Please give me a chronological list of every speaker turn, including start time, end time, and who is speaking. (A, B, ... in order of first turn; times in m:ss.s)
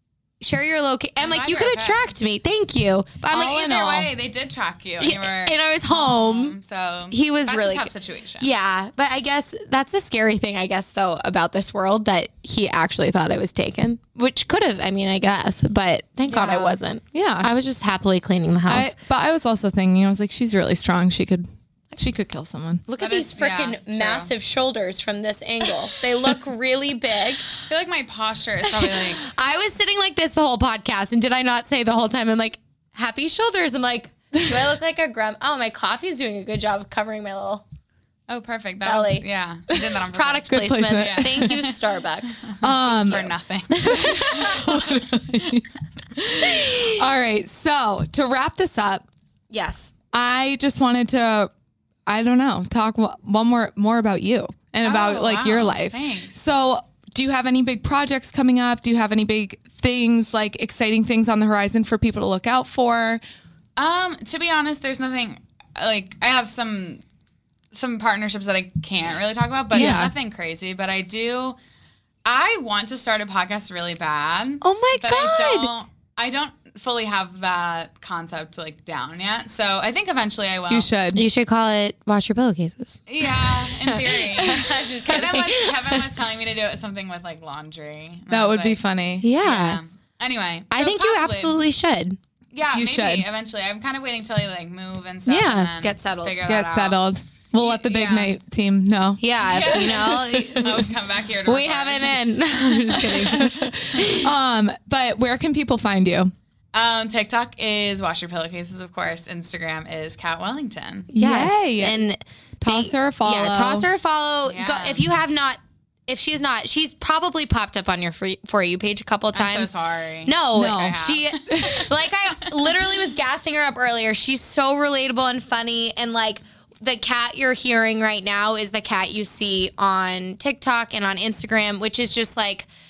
0:00.4-0:03.7 A
0:01.2-0:02.1 B
0:03.3-0:08.5 B
0:03.3-0:04.1 C
0:05.0-0:06.6 A
0:07.1-0:19.0 A
0:16.3-0:16.7 B
0:17.1-0:17.5 C
0:18.7-0:22.8 C
0:22.9-0:27.4 A
0:23.0-0:24.3 B
0:27.6-0:29.3 B
0:28.6-0:37.6 A
0:38.3-0:44.9 B
0:38.8-0:39.3 A
0:40.1-0:42.6 A
0:40.5-0:41.7 C
0:42.6-0:43.3 C
0:43.8-0:44.7 A
0:43.8-0:49.0 C
0:49.5-0:49.9 A
0:50.1-0:51.5 C
0:52.1-1:03.2 C
0:54.8-0:56.4 B
1:03.8-1:07.0 B
1:07.7-1:11.6 B
1:09.7-1:10.1 A
1:09.7-1:10.1 C
1:12.2-1:20.9 B
1:14.6-1:15.7 A
1:20.7-1:21.2 C
1:21.1-1:26.1 A
1:23.1-1:28.8 B
1:28.3-1:29.3 C
1:29.2-1:29.8 A
1:29.4-1:31.6 B
1:30.7-1:32.2 A
1:32.5-1:37.0 B
1:32.7-1:33.3 C
1:35.3-1:36.5 A
1:36.4-1:40.8 C
1:37.6-1:38.4 B
1:39.2-1:40.9 A
1:39.4-1:43.4 B
1:41.5-1:44.3 A
1:42.9-1:46.3 C
1:46.7-1:51.1 B
1:51.1-1:52.0 C
1:51.2-1:59.7 A
1:52.6-1:53.9 C
1:54.4-1:55.1 B
1:59.3-2:01.4 B
2:00.2-2:12.7 A
2:00.5-2:01.9 C